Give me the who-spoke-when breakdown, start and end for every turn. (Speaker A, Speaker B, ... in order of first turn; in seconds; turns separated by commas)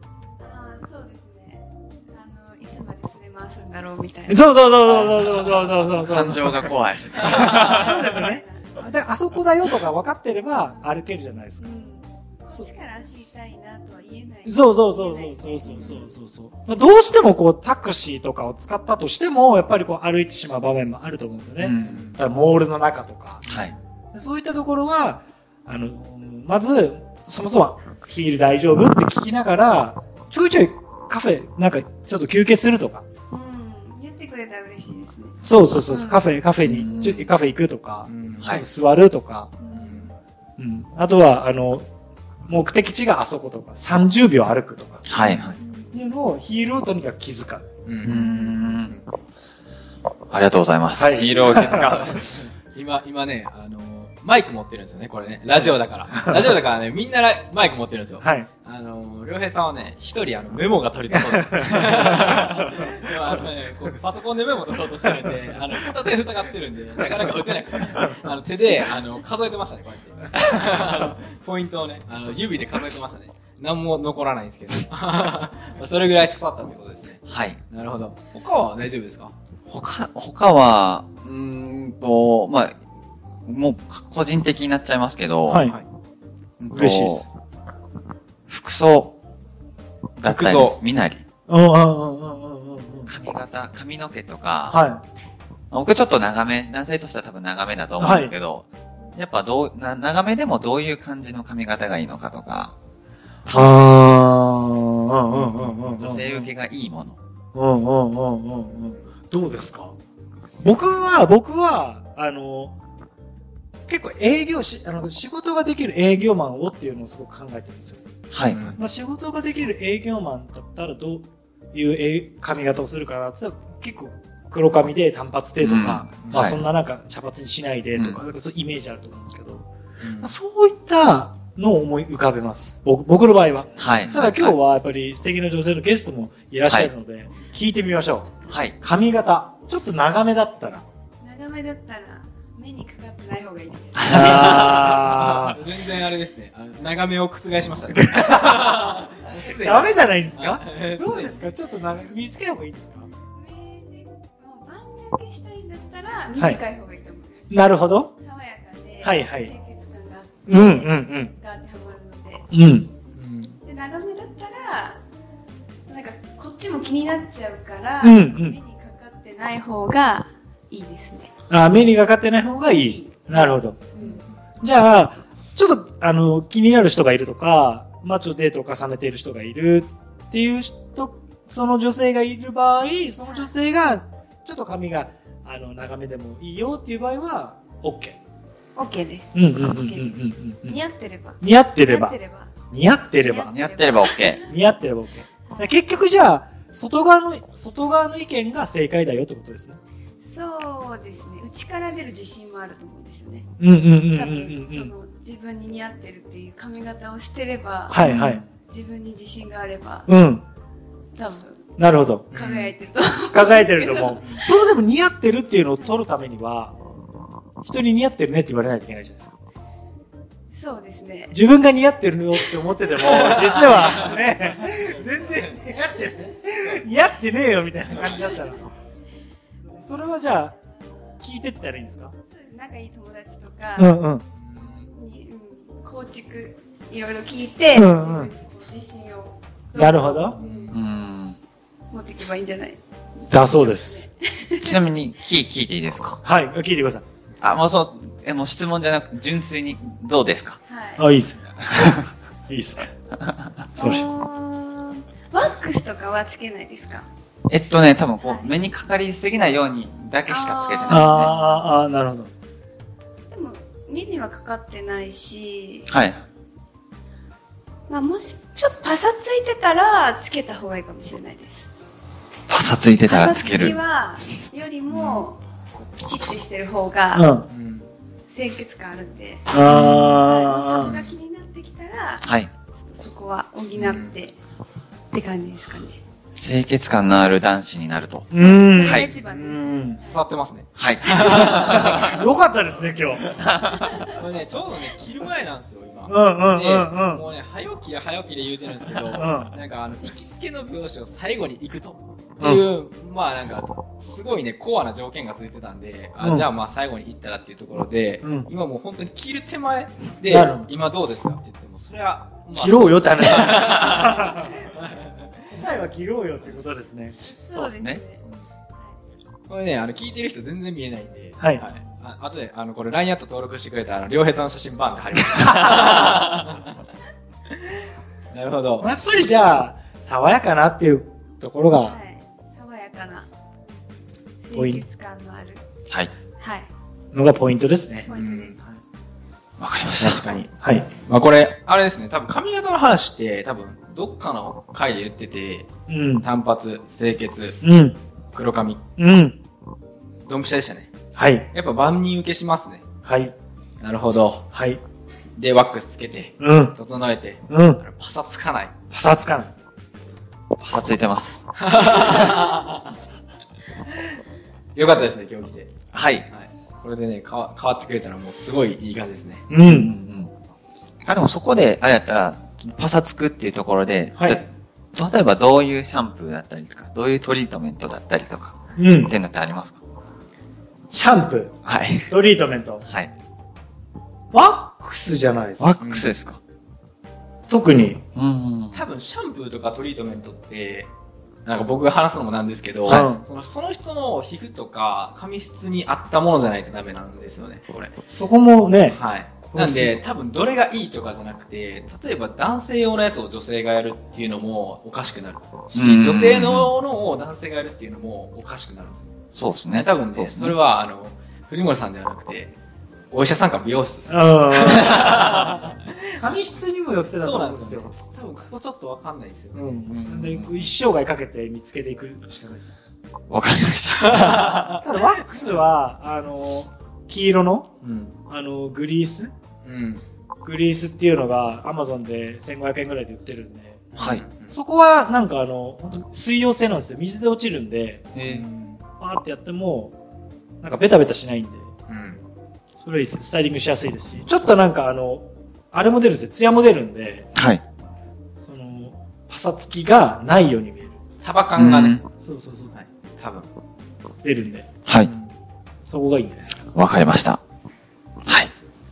Speaker A: 0.4-4.5, Speaker B: 4.3-11.7, Speaker C: 4.8-8.1, Speaker A: 7.1-8.8, Speaker A: 10.6-10.8, Speaker A: 11.6-15.9, Speaker B: 14.4-23.4, Speaker D: 15.7-16.0, Speaker C: 21.6-22.0, Speaker D: 21.9-22.2, Speaker C: 23.4-23.7, Speaker D: 23.4-23.7, Speaker B: 24.1-33.0, Speaker A: 33.3-36.3, Speaker B: 35.4-39.6, Speaker C: 36.6-37.3, Speaker D: 38.0-38.5, Speaker C: 38.4-38.6, Speaker A: 39.6-40.1, Speaker D: 39.7-40.1, Speaker B: 40.6-41.9, Speaker B: 42.5-45.1, Speaker C: 45.0-45.6, Speaker D: 45.2-45.5, Speaker A: 45.6-46.0, Speaker B: 45.9-47.6, Speaker D: 47.9-49.0, Speaker C: 48.0-49.0, Speaker C: 50.3-52.2, Speaker B: 51.0-52.1, Speaker D: 51.4-79.3, Speaker B: 56.1-56.4, Speaker B: 58.2-58.5, Speaker B: 61.3-63.3, Speaker C: 77.3-77.6, Speaker C: 79.7-82.8, Speaker C: 83.4-85.6, Speaker B: 85.5-85.8, Speaker C: 86.6-87.2, Speaker B: 86.7-87.3, Speaker C: 88.5-89.1, Speaker C: 90.2-91.2, Speaker D: 90.2-90.8, Speaker B: 91.5-93.1, Speaker C: 93.1-94.8, Speaker B: 94.7-95.0, Speaker C: 95.7-102.7, Speaker B: 98.0-98.3, Speaker C: 103.5-103.8, Speaker B: 103.5-106.5, Speaker C: 105.3-107.2, Speaker B: 107.5-109.9, Speaker B: 110.6-112.7, Speaker B: 113.9-118.1, Speaker C: 118.3-118.8, Speaker D: 118.5-118.8, Speaker B: 118.8-129.7, Speaker C: 125.6-126.6, Speaker C: 127.9-128.2, Speaker D: 130.0-130.3, Speaker B: 130.2-140.8, Speaker C: 133.8-134.6, Speaker C: 138.5-138.8, Speaker A: 141.2-144.9, Speaker B: 144.1-145.6, Speaker D: 144.1-151.4, Speaker B: 148.1-148.6, Speaker B: 149.4-153.1, Speaker A: 153.2-162.5, Speaker B: 157.5-158.1, Speaker B: 159.0-159.5, Speaker B: 160.5-161.3, Speaker B: 162.5-162.9, Speaker D: 163.1-163.6, Speaker A: 163.6-165.0, Speaker A: 165.9-171.3, Speaker B: 168.0-168.6, Speaker B: 171.5-173.8, Speaker A: 172.7-174.2, Speaker D: 174.0-174.3, Speaker B: 174.6-188.2, Speaker A: 183.2-183.5, Speaker A: 188.8-192.5, Speaker B: 189.3-190.8, Speaker B: 191.4-192.1, Speaker B: 192.7-193.5, Speaker A: 193.2-194.4, Speaker C: 193.5-194.4, Speaker B: 194.4-199.8, Speaker A: 195.5-195.8, Speaker A: 200.2-203.5, Speaker B: 203.6-204.9, Speaker A: 204.1-208.0, Speaker B: 207.9-208.4, Speaker D: 208.0-208.4, Speaker A: 208.7-210.1, Speaker B: 210.1-210.4, Speaker A: 211.2-211.6, Speaker B: 211.8-212.3, Speaker D: 212.3-212.7, Speaker A: 212.3-214.4, Speaker B: 213.3-216.8, Speaker B: 217.6-219.4, Speaker A: 220.5-221.3, Speaker B: 221.3-228.7, Speaker D: 222.9-225.4, Speaker B: 229.8-230.6, Speaker B: 231.2-232.1, Speaker A: 232.2-233.9, Speaker B: 233.8-234.2, Speaker D: 234.3-234.9, Speaker A: 234.9-240.8, Speaker B: 237.7-238.3, Speaker B: 239.7-240.4, Speaker D: 240.3-240.8, Speaker C: 240.7-241.4, Speaker A: 241.9-242.8, Speaker B: 243.3-244.1, Speaker A: 243.3-244.8, Speaker C: 244.6-246.2, Speaker B: 246.2-247.0, Speaker C: 247.4-250.6, Speaker A: 250.7-251.0, Speaker B: 251.0-251.9, Speaker B: 252.5-252.9, Speaker B: 253.7-254.1, Speaker A: 253.8-257.1, Speaker C: 257.5-261.4, Speaker A: 258.2-258.6, Speaker A: 260.3-261.7, Speaker B: 260.9-262.3, Speaker A: 263.3-265.9, Speaker C: 265.9-266.2, Speaker A: 267.9-271.7, Speaker C: 272.5-273.8, Speaker A: 273.0-277.3, Speaker D: 274.9-275.2, Speaker B: 277.1-277.5, Speaker D: 277.5-277.9, Speaker A: 278.3-284.4, Speaker B: 279.5-281.0, Speaker C: 279.6-280.1, Speaker D: 280.8-281.1, Speaker C: 282.2-282.5, Speaker D: 283.7-284.1, Speaker A: 285.1-286.0, Speaker C: 286.3-289.1, Speaker A: 288.3-290.2, Speaker B: 288.3-290.0, Speaker D: 290.0-292.2, Speaker C: 290.8-292.1, Speaker B: 291.3-293.2, Speaker C: 293.3-294.0, Speaker D: 294.1-315.3, Speaker B: 296.1-297.3, Speaker B: 299.1-299.5, Speaker B: 306.2-306.5, Speaker B: 308.2-308.5, Speaker B: 310.3-310.7, Speaker B: 312.5-314.7, Speaker B: 315.5-317.2, Speaker A: 317.1-318.2, Speaker C: 317.4-318.0, Speaker D: 319.5-326.8, Speaker B: 321.4-321.6, Speaker D: 328.3-328.9, Speaker B: 328.8-332.0, Speaker A: 331.8-333.3, Speaker A: 334.4-335.6, Speaker B: 334.5-334.8, Speaker A: 336.4-336.7, Speaker B: 337.1-338.1, Speaker A: 338.1-338.7, Speaker D: 338.1-338.6, Speaker C: 339.6-340.2, Speaker D: 340.0-345.7, Speaker B: 340.6-340.9, Speaker B: 345.9-346.2, Speaker D: 346.2-347.6, Speaker B: 347.6-348.0, Speaker D: 348.3-348.8, Speaker B: 349.0-349.4, Speaker D: 350.2-350.9, Speaker B: 351.1-351.5, Speaker D: 351.5-352.8, Speaker B: 353.0-353.3, Speaker D: 353.8-354.5, Speaker B: 354.5-354.8, Speaker D: 355.4-358.7, Speaker B: 356.4-356.7, Speaker B: 357.5-357.8, Speaker B: 358.9-359.5, Speaker C: 360.6-361.4, Speaker D: 361.6-362.9, Speaker D: 364.7-365.7, Speaker C: 365.9-366.3, Speaker D: 366.3-369.4, Speaker B: 369.5-370.0, Speaker C: 369.7-370.3, Speaker C: 371.0-379.8, Speaker B: 374.1-374.4, Speaker B: 378.8-379.1, Speaker B: 380.9-381.6, Speaker C: 381.6-382.1, Speaker B: 382.1-382.9, Speaker C: 382.8-383.1, Speaker B: 384.3-385.7, Speaker C: 385.6-386.4, Speaker D: 385.8-386.1, Speaker B: 387.5-388.0, Speaker C: 388.1-388.8, Speaker D: 388.7-390.9, Speaker D: 391.4-397.9, Speaker B: 392.9-393.2, Speaker B: 398.1-399.0, Speaker D: 398.9-409.1, Speaker B: 399.5-400.0, Speaker C: 405.7-406.7, Speaker C: 409.3-410.5, Speaker D: 409.7-412.5, Speaker D: 413.1-416.4, Speaker B: 414.1-415.4, Speaker B: 416.2-418.3, Speaker D: 417.1-419.8, Speaker B: 419.5-422.7, Speaker C: 419.9-420.7, Speaker C: 423.3-424.7, Speaker D: 423.9-424.8, Speaker B: 424.8-427.7, Speaker D: 427.8-428.1, Speaker B: 428.3-429.3, Speaker D: 429.6-430.0, Speaker B: 430.4-433.9, Speaker D: 433.9-434.5, Speaker C: 434.0-434.2, Speaker B: 434.5-438.1, Speaker C: 438.1-438.4, Speaker D: 438.2-438.8, Speaker B: 439.0-439.9, Speaker B: 440.6-441.7, Speaker D: 441.9-442.2, Speaker B: 442.8-447.3, Speaker C: 447.3-447.6, Speaker B: 448.4-451.1, Speaker D: 451.2-452.0, Speaker C: 451.6-452.0, Speaker B: 452.2-452.7, Speaker D: 452.7-453.5, Speaker B: 454.2-454.7, Speaker D: 455.0-455.3, Speaker B: 455.9-456.7, Speaker C: 456.7-457.4, Speaker C: 458.2-458.5